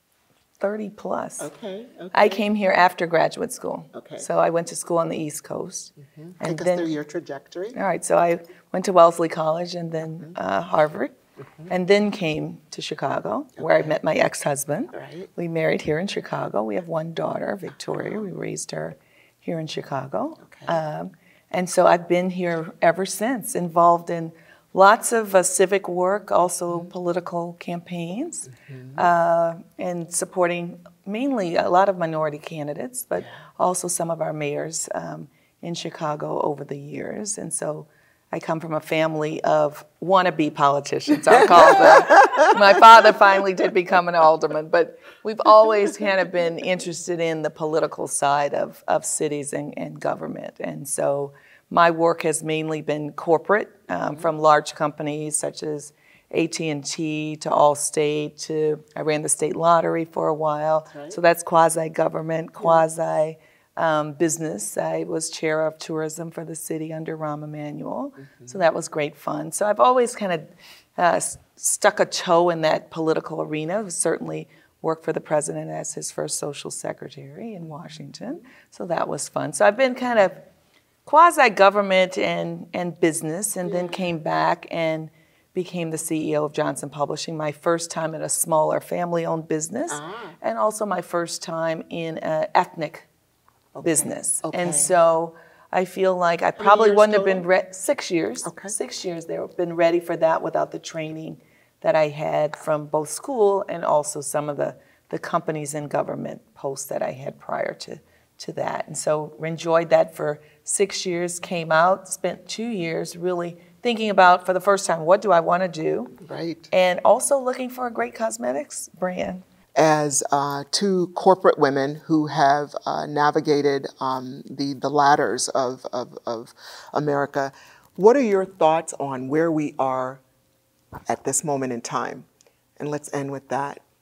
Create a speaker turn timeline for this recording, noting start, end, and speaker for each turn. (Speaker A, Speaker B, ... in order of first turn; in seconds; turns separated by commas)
Speaker A: 0.6-1.5, Speaker B: 1.4-2.5, Speaker A: 2.1-6.9, Speaker B: 3.9-4.3, Speaker B: 6.0-7.8, Speaker A: 7.7-11.1, Speaker A: 11.7-80.4, Speaker B: 13.6-13.9, Speaker B: 14.9-15.3, Speaker B: 20.4-20.8, Speaker B: 28.6-29.0, Speaker B: 41.6-42.5, Speaker B: 60.9-61.2, Speaker B: 68.2-68.5, Speaker A: 81.0-93.1, Speaker B: 83.6-84.1, Speaker B: 89.9-90.4, Speaker B: 93.8-94.9, Speaker A: 93.8-116.2, Speaker B: 96.6-97.5, Speaker B: 98.5-98.8, Speaker B: 116.2-116.7, Speaker A: 116.7-119.4, Speaker B: 119.8-130.2, Speaker B: 131.1-132.3, Speaker B: 132.8-133.8